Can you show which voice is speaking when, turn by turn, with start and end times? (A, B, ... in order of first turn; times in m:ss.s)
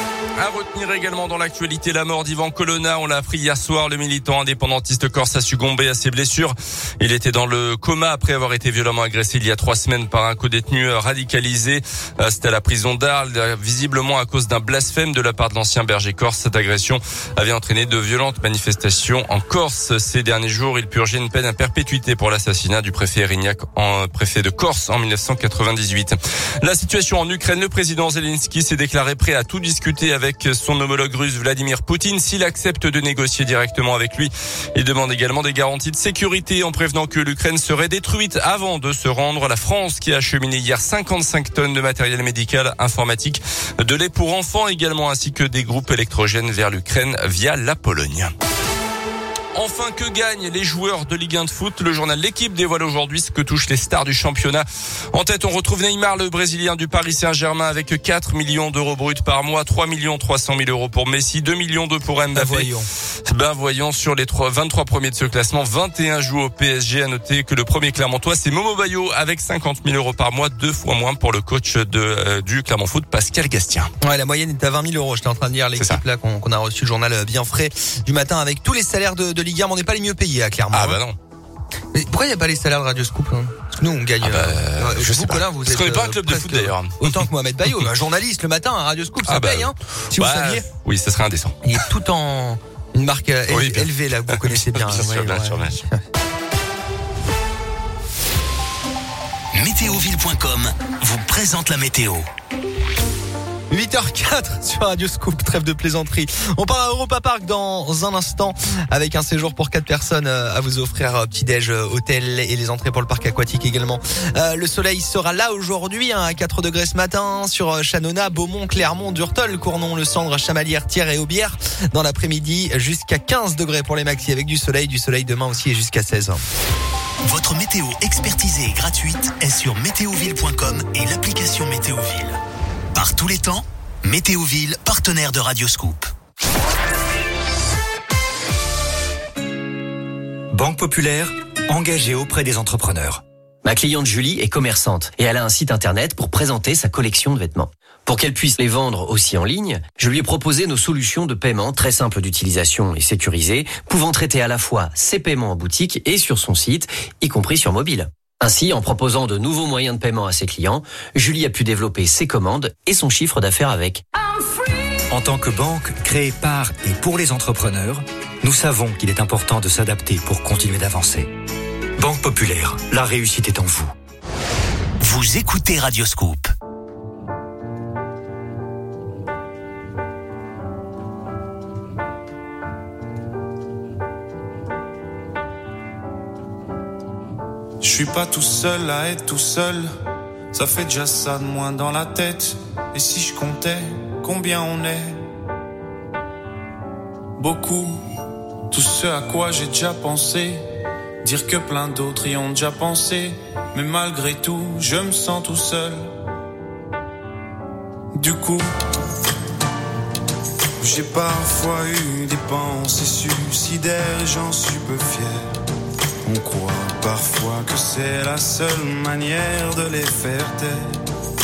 0:00.4-0:48.3 A
0:49.5-1:02.7 A
1:02.3-1:02.9 B
1:03.3-1:13.9 A
1:14.0-1:21.0 B
1:20.7-1:21.2 A
1:21.9-1:30.7 B
1:24.2-1:27.8 A
1:29.3-1:31.6 A
1:31.6-1:36.0 B
1:33.5-1:35.8 A
1:39.5-1:42.3 C
1:43.7-2:06.4 B
2:07.2-2:12.4 C
2:12.9-2:16.1 C
2:20.5-2:23.2 D
2:23.6-2:44.0 E
2:45.1-2:51.3 D
2:52.0-2:53.9 D
2:55.0-2:56.5 C
3:07.8-3:09.9 F
3:10.5-3:15.2 F
3:17.4-3:18.0 F
3:18.7-3:20.6 F
3:21.2-3:26.1 F
3:28.1-3:28.7 F
3:30.8-3:35.6 F
3:36.2-3:41.0 F